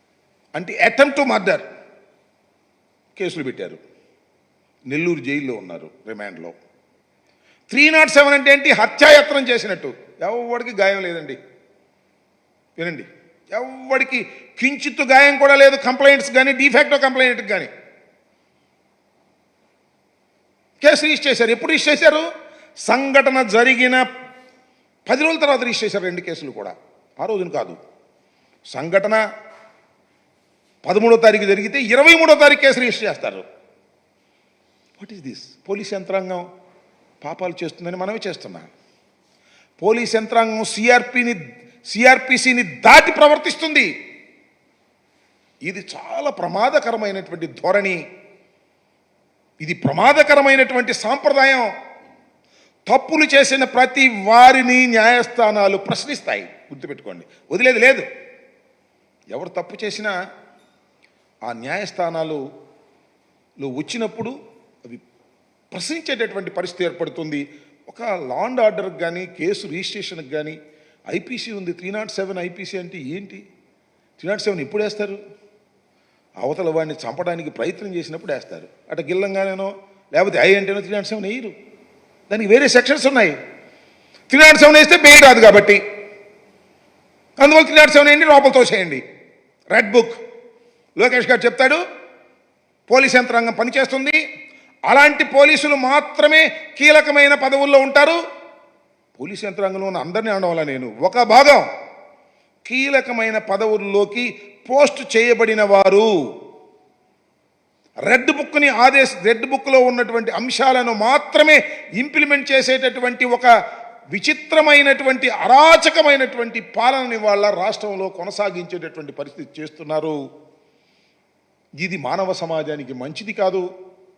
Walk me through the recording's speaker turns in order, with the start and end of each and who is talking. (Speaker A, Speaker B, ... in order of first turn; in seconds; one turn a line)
Speaker A: 0.6-1.6
Speaker A: 3.1-3.8
Speaker A: 4.9-6.5
Speaker A: 7.7-11.4
Speaker A: 12.8-17.7
Speaker A: 20.8-22.2
Speaker A: 22.9-24.0
Speaker A: 25.1-27.8
Speaker A: 28.7-29.2
Speaker A: 30.8-33.4
Speaker A: 35.0-36.4
Speaker A: 37.2-38.7
Speaker A: 39.8-41.4
Speaker A: 41.9-43.9
Speaker A: 45.6-48.0
Speaker A: 49.6-51.7
Speaker A: 52.9-58.1
Speaker A: 59.3-60.1
Speaker A: 61.5-62.4
Speaker A: 63.6-64.3
Speaker A: 65.7-70.6
Speaker A: 71.1-73.4
Speaker A: 74.2-75.2
Speaker A: 76.4-81.5
Speaker A: 82.3-83.3
Speaker A: 84.3-85.8
Speaker A: 87.4-89.0
Speaker A: 89.7-90.2
Speaker A: 91.0-91.8
Speaker A: 92.9-94.2
Speaker A: 94.9-98.2
Speaker A: 99.2-101.7
Speaker A: 102.7-106.1
Speaker A: 108.1-113.5
Speaker A: 114.1-120.1
Speaker A: 121.8-123.6